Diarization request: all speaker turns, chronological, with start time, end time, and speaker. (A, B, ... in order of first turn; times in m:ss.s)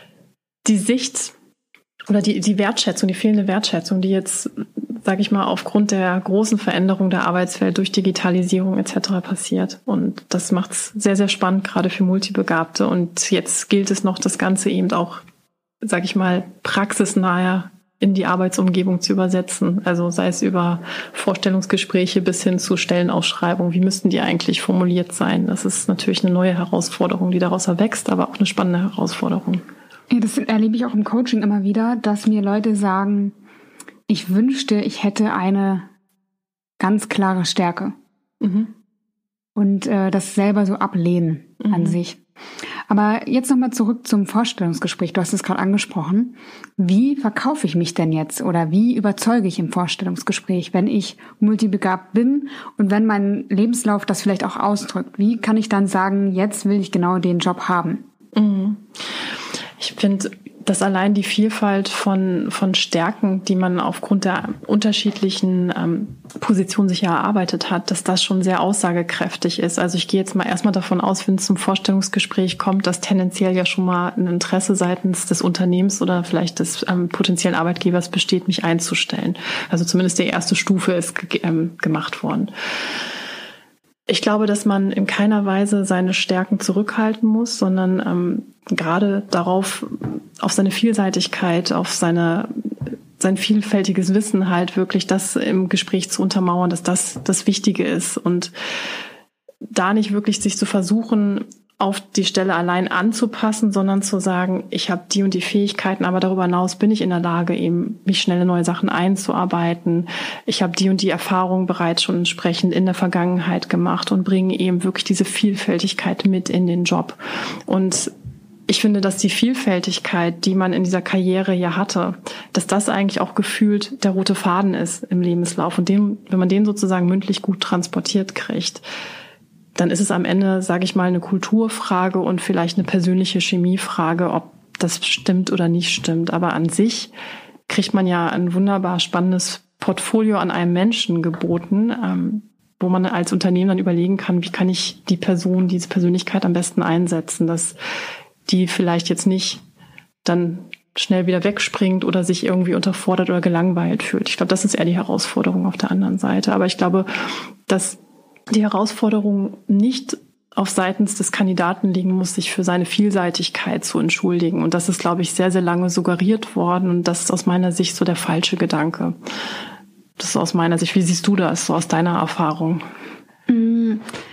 0:00.6-0:01.4 A
0:02.1-0:15.2 A
0:15.8-0:29.6 A
0:30.1-0:33.4 B
0:34.1-0:35.9 B
0:36.8-0:38.0 B
0:38.4-0:38.7 A
0:39.6-0:42.2 B
0:41.7-0:42.0 A
0:42.9-0:58.1 B
0:58.3-0:59.0 A
0:59.8-1:22.5 A
1:24.1-1:38.5 A
1:39.7-1:58.1 A
1:58.7-2:08.8 A
2:09.8-2:17.1 A
2:17.7-2:27.8 A
2:28.5-2:29.6 A
2:30.2-2:38.0 A
2:38.5-2:49.2 A
2:50.2-2:52.8 A
2:53.5-2:54.1 B